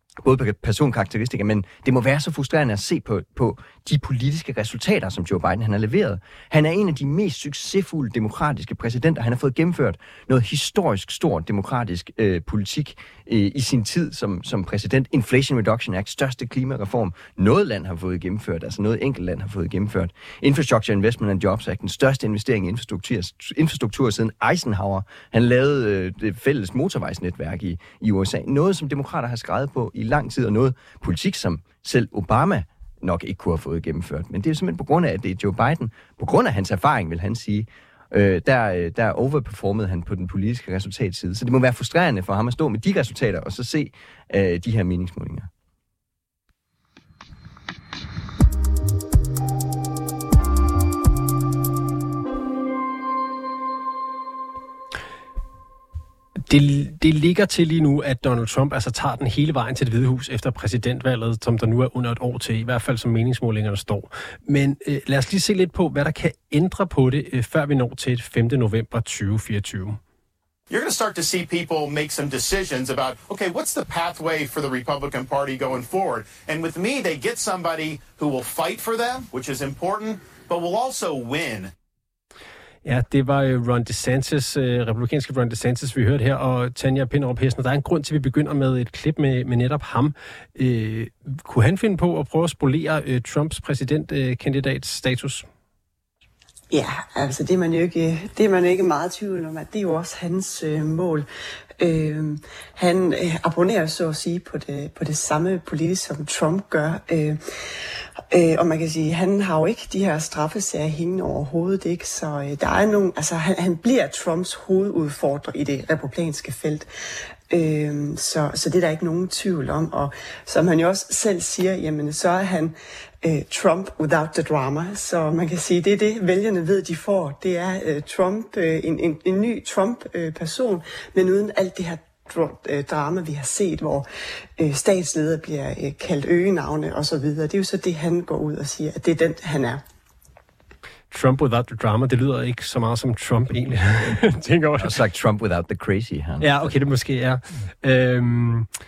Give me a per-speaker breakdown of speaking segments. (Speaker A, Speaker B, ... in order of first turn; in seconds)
Speaker A: 0.2-45.5, 144.8-146.7
Speaker B: 56.5-70.0, 82.8-95.5, 141.1-145.0, 146.4-148.7
Speaker C: 70.7-81.7
Speaker D: 96.7-101.3, 101.8-107.4, 108.3-116.9, 117.5-134.1, 134.6-139.8